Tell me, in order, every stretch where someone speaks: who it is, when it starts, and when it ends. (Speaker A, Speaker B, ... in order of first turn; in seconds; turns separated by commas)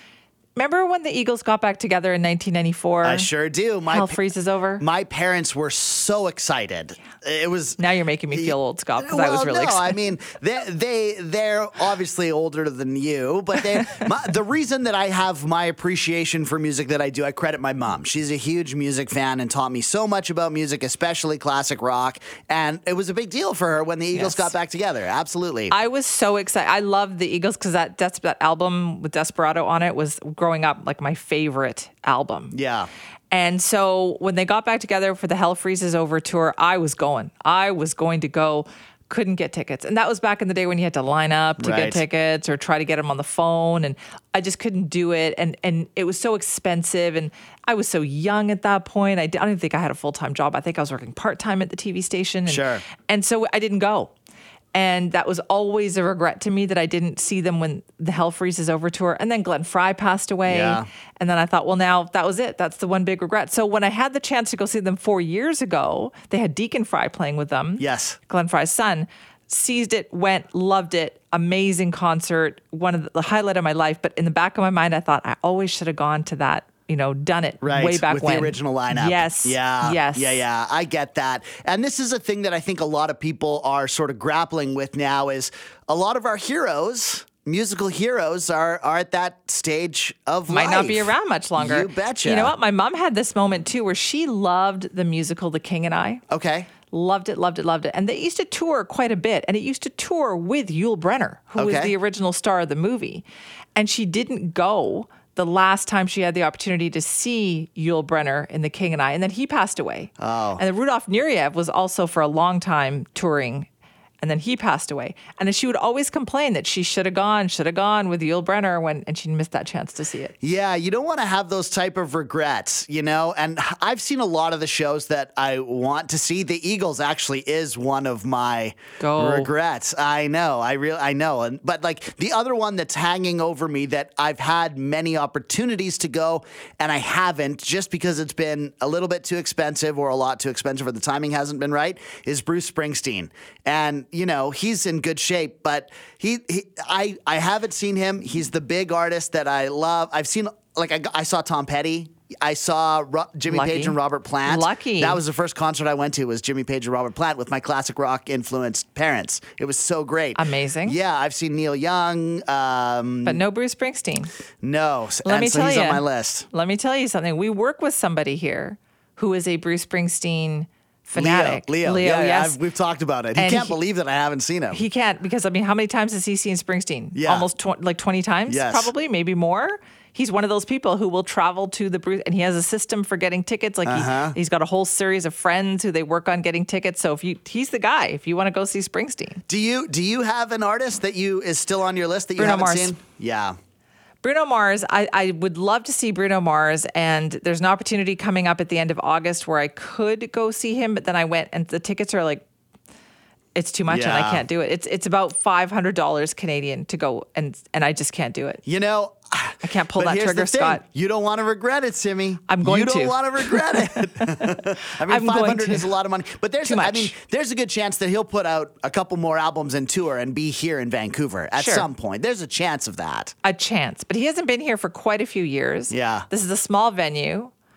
Speaker A: 0.6-3.3, Speaker B: 3.0-4.2, Speaker A: 3.9-4.8, Speaker B: 4.8-7.8, Speaker A: 7.8-10.0, Speaker B: 8.3-25.7, Speaker A: 24.1-24.5, Speaker A: 25.7-32.5, Speaker B: 32.5-32.9, Speaker A: 33.3-54.1, Speaker B: 41.6-42.0, Speaker B: 52.5-52.8, Speaker A: 54.7-80.4, Speaker B: 60.5-60.9, Speaker B: 67.8-68.2, Speaker B: 77.6-92.5, Speaker A: 90.5-96.2, Speaker B: 96.3-96.7, Speaker A: 96.9-103.2, Speaker B: 101.6-101.9, Speaker A: 103.8-113.7, Speaker B: 110.2-110.6, Speaker A: 114.2-120.3, Speaker B: 120.4-163.4, Speaker A: 129.0-129.5, Speaker A: 153.5-155.2, Speaker A: 160.3-160.9, Speaker A: 163.2-164.3, Speaker B: 164.6-166.5, Speaker A: 165.2-172.6, Speaker B: 171.2-174.8, Speaker A: 173.3-173.8, Speaker A: 174.7-189.4, Speaker B: 177.2-177.5, Speaker B: 178.5-178.9, Speaker B: 183.8-184.4, Speaker B: 189.5-193.5, Speaker A: 192.4-192.9, Speaker A: 194.2-202.4, Speaker A: 203.6-208.6, Speaker B: 203.9-204.4, Speaker B: 208.7-223.3, Speaker A: 209.6-210.8, Speaker A: 212.5-215.9, Speaker A: 216.6-217.1, Speaker A: 221.6-221.9, Speaker A: 223.4-227.5, Speaker B: 225.9-226.3